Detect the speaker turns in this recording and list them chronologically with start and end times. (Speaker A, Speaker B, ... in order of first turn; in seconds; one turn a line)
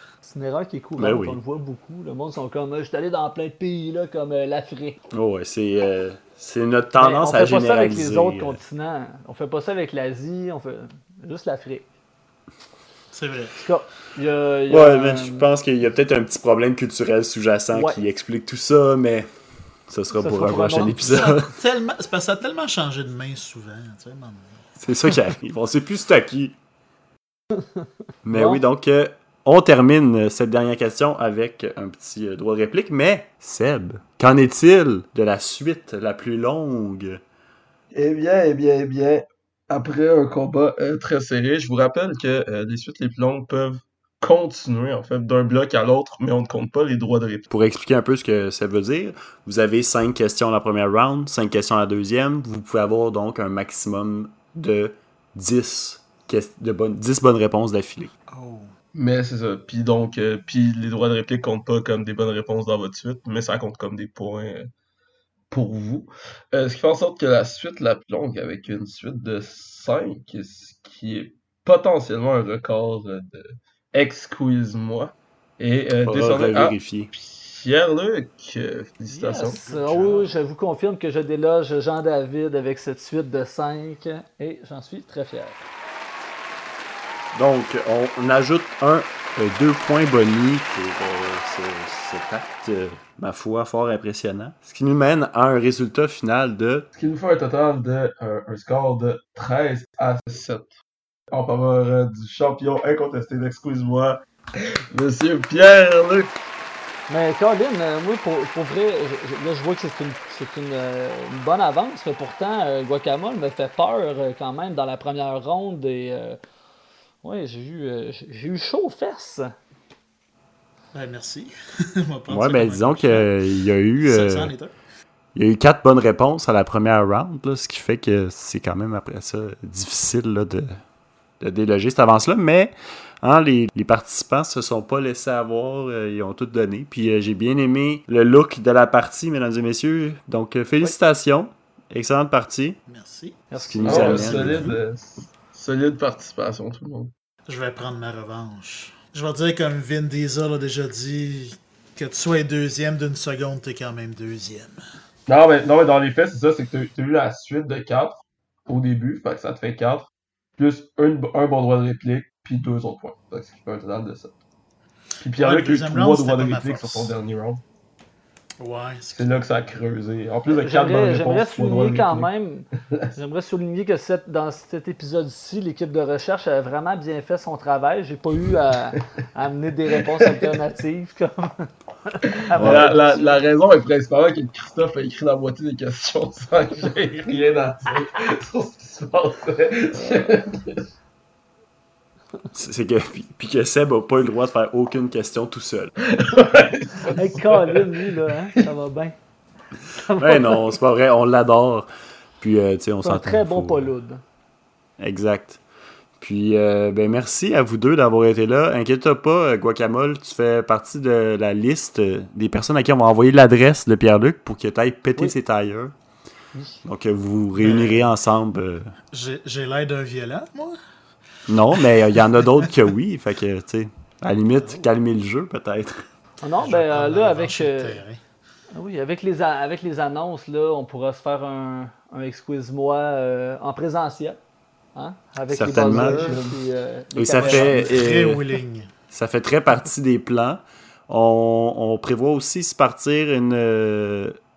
Speaker A: 0.2-5.0
Speaker B: 1.0-1.4
Speaker B: 5.1-8.6
Speaker A: 7.0-11.9
Speaker C: 13.1-13.6
Speaker A: 13.6-15.5
Speaker B: 14.7-19.3
Speaker A: 17.7-18.0
Speaker B: 19.9-21.5
Speaker A: 20.1-21.2
Speaker C: 20.8-25.2
Speaker B: 24.8-26.6
Speaker B: 28.2-37.2
Speaker A: 28.3-28.6
Speaker D: 37.9-47.5
Speaker B: 47.5-58.1
Speaker C: 58.3-58.7
Speaker D: 58.9-64.7
Speaker D: 65.5-79.6
Speaker B: 76.0-77.1
Speaker A: 79.1-85.7
Speaker C: 79.2-80.3
Speaker B: 87.3-96.9
Speaker D: 96.9-100.7
Speaker D: 101.3-106.3
Speaker A: 107.1-116.4
Speaker A: 117.2-119.5
Speaker C: 120.9-123.3
Speaker B: 122.3-124.5
Speaker C: 124.0-124.7
Speaker B: 125.3-130.8
Speaker B: 131.4-142.8
Speaker C: 142.9-143.5
Speaker A: 143.5-144.5
Speaker B: 143.6-144.7
Speaker D: 143.8-147.1
Speaker C: 144.0-144.7
Speaker C: 147.5-154.8
Speaker D: 155.3-160.1
Speaker D: 160.6-164.3
Speaker D: 165.2-167.6
Speaker C: 165.3-167.2
Speaker C: 168.6-169.4
Speaker D: 169.1-172.3
Speaker A: 170.5-183.4
Speaker D: 182.5-190.8
Speaker B: 182.5-182.9
Speaker A: 190.0-190.4
Speaker B: 192.5-195.9
Speaker D: 196.1-198.6
Speaker A: 197.1-199.1
Speaker A: 200.0-200.6
Speaker B: 200.1-203.9
Speaker A: 203.0-204.2
Speaker B: 205.0-205.6
Speaker B: 206.2-215.9
Speaker A: 216.5-216.8
Speaker B: 216.8-218.9
Speaker C: 217.6-218.1
Speaker C: 219.1-220.8
Speaker B: 221.5-226.0
Speaker C: 221.7-222.7
Speaker C: 224.5-224.9
Speaker A: 226.4-228.0
Speaker C: 226.6-228.2
Speaker A: 228.7-234.4
Speaker A: 234.9-237.8
Speaker B: 235.5-236.5
Speaker C: 236.0-236.5
Speaker B: 237.1-238.4
Speaker C: 237.3-238.9
Speaker B: 239.1-244.4